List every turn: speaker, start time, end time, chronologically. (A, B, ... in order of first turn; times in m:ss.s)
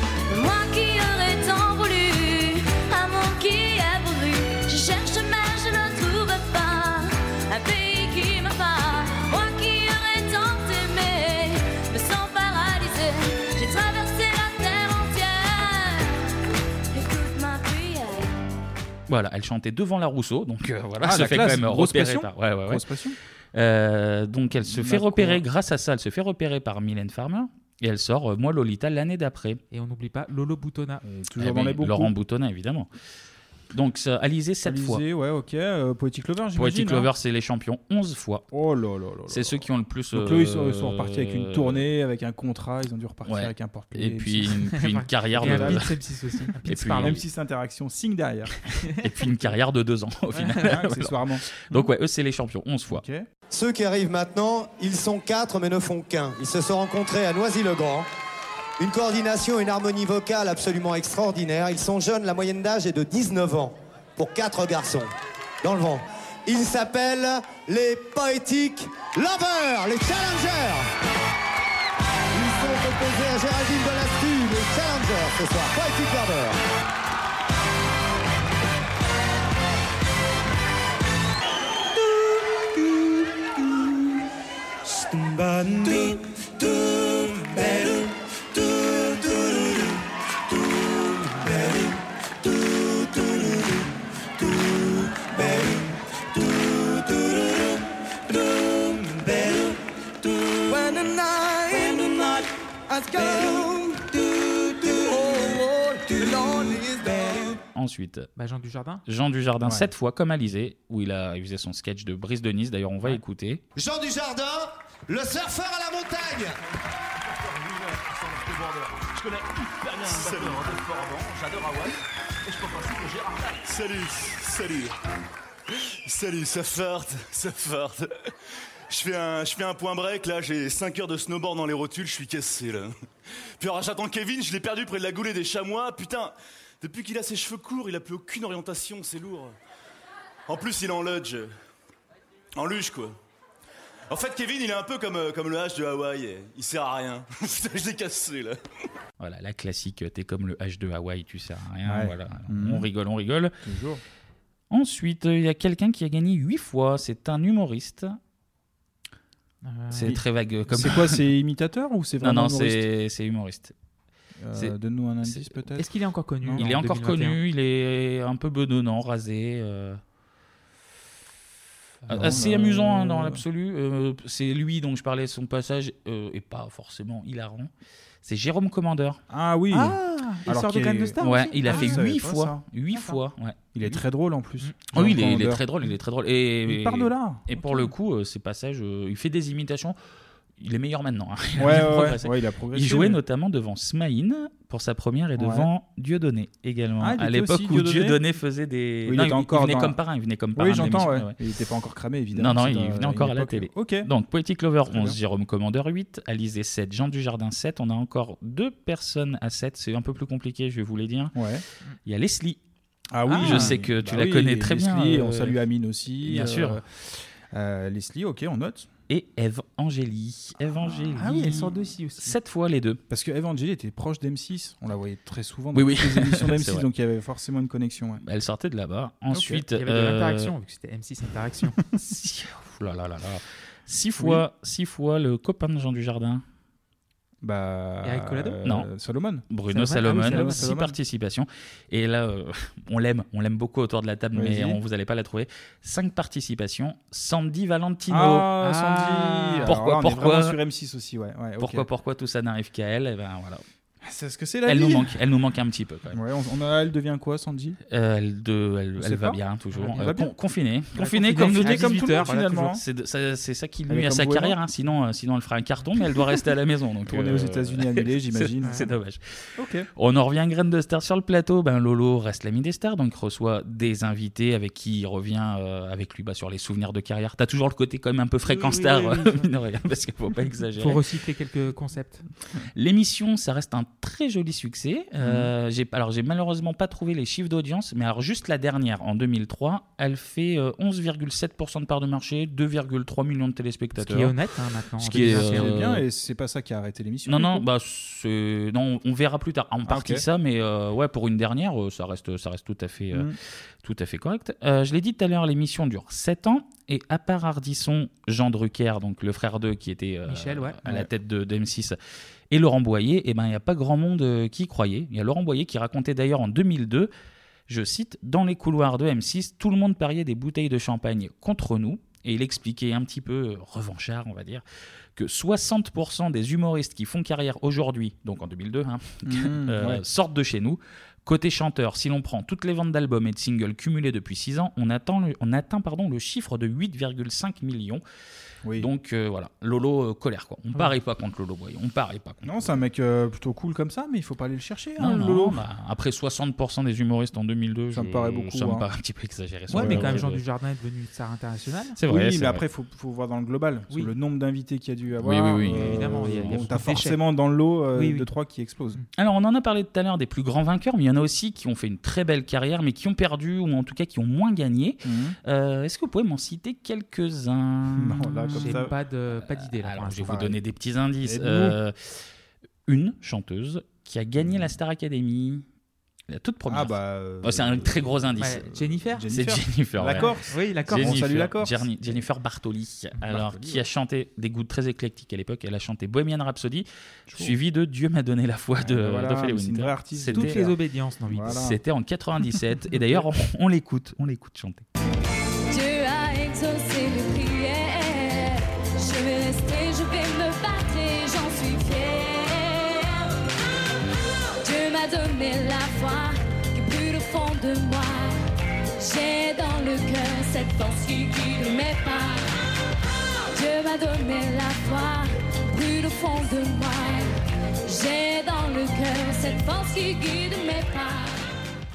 0:00.3-0:16.3 A
0:16.9-0:18.3 A
0:19.1-0:22.8 B
0:21.0-0:23.2 C
0:23.5-0:29.6 B
0:24.6-0:25.4 C
0:29.7-0:31.0 D
0:31.0-0:32.1 C
0:31.4-0:32.9 B
0:33.7-0:35.0 B
0:34.6-0:37.1 C
0:36.6-0:38.5 B
0:38.5-0:44.6 C
0:39.3-0:41.8 B
0:43.2-0:45.9 B
0:44.5-0:47.2 D
0:45.4-0:45.8 C
0:46.6-0:47.2 B
0:47.0-0:48.5 C
0:48.9-0:53.0 B
0:50.3-0:51.9 C
0:52.9-0:53.3 C
0:53.5-0:58.1 E
0:58.8-1:10.9 E
1:12.3-1:16.6 E
1:24.8-1:30.0 F
1:30.6-1:33.8 F
1:34.4-1:47.6 F
1:47.7-1:48.3 B
1:48.4-1:49.0 D
1:49.0-1:53.6 B
1:49.6-1:49.9 C
1:53.8-1:56.6 E
1:57.3-2:04.9 G
2:06.0-2:08.1 G
2:08.9-2:12.9 G
2:13.6-2:19.6 G
2:20.5-2:21.5 G
2:22.6-2:23.1 G
2:24.1-2:28.6 G
2:29.2-2:33.5 B
2:31.9-2:32.9 C
2:33.6-2:34.0 C
2:34.7-2:38.2 B
2:39.6-2:40.2 D
2:39.9-2:41.2 B
2:40.0-2:42.8 C
2:42.2-2:43.8 B
2:44.4-2:45.9 C
2:44.5-2:45.5 B
2:45.8-2:47.4 D
2:46.4-2:46.7 C
2:46.6-2:50.0 B
2:52.1-2:53.4 C
2:52.1-2:57.7 B
2:58.2-2:59.2 B
2:59.3-3:03.2 C
2:59.7-3:02.0 D
3:01.2-3:04.0 B
3:03.7-3:05.6 C
3:04.9-3:10.0 B
3:06.6-3:07.7 C
3:10.6-3:21.4 B
3:11.6-3:13.2 C
3:15.4-3:15.7 C
3:17.0-3:18.2 C
3:19.0-3:20.0 C
3:20.5-3:24.1 C
3:22.4-3:31.4 B
3:24.9-3:25.2 C
3:31.4-3:31.6 C
3:32.0-3:32.6 B
3:33.1-3:38.9 C
3:33.3-3:33.8 D
3:33.4-3:35.6 B
3:36.2-3:36.8 B
3:39.1-3:43.0 B
3:40.8-3:41.6 C
3:41.2-3:42.4 D
3:43.1-3:48.2 C
3:45.7-3:46.9 B
3:48.2-3:50.5 B
3:49.3-3:49.6 C
3:49.7-3:51.8 D
3:52.0-3:56.4 B
3:54.2-3:54.4 C
3:57.4-3:59.5 C
3:58.0-3:58.6 D
3:59.5-4:08.5 B
3:59.7-4:00.8 D
4:00.0-4:00.9 C
4:04.3-4:04.8 C
4:08.1-4:11.9 C
4:08.6-4:09.7 D
4:09.6-4:10.6 B
4:11.6-4:13.6 B
4:14.0-4:15.2 C
4:14.6-4:16.2 B
4:16.1-4:17.8 C
4:17.9-4:29.2 B
4:19.0-4:20.3 C
4:21.0-4:22.4 D
4:21.1-4:22.8 C
4:23.9-4:24.6 C
4:27.0-4:28.9 C
4:29.6-4:29.9 C
4:30.0-4:41.0 B
4:38.4-4:39.5 D
4:40.8-4:42.2 D
4:42.8-4:54.4 B
4:45.2-4:45.5 C
4:54.0-4:55.8 D
4:55.0-4:56.0 B
4:55.1-4:57.6 C
4:57.2-5:03.3 B
4:59.9-5:00.2 C
5:03.8-5:12.0 B
5:10.3-5:10.8 D
5:12.5-5:17.1 B
5:17.7-5:24.6 B
5:25.2-5:38.0 B
5:29.2-5:30.0 C
5:38.8-5:42.7 B
5:42.4-5:45.6 C
5:45.0-5:50.4 B
5:47.9-5:48.9 C
5:49.7-5:52.0 D
5:49.7-5:50.2 C
5:52.0-5:52.6 B
5:52.0-5:59.0 C
5:55.2-5:56.8 B
5:55.7-5:57.2 D
5:57.9-5:58.3 D
5:59.2-6:08.8 B
6:05.0-6:05.4 C
6:07.9-6:08.9 C
6:08.5-6:10.4 D
6:09.5-6:12.2 B
6:10.2-6:10.6 C
6:11.2-6:11.8 C
6:12.9-6:15.6 B
6:14.4-6:14.8 C
6:16.3-6:18.6 B
6:16.7-6:22.2 C
6:18.4-6:19.2 D
6:19.3-6:20.3 B
6:20.2-6:21.2 D
6:20.9-6:30.6 B
6:23.2-6:23.8 C
6:27.3-6:27.5 C
6:28.8-6:30.8 C
6:30.3-6:31.6 D
6:31.3-6:31.8 C
6:31.5-6:34.9 B
6:35.7-6:43.3 A
6:44.6-6:48.4 A
6:49.0-6:52.5 A
6:53.5-6:57.3 A
6:57.8-7:01.4 A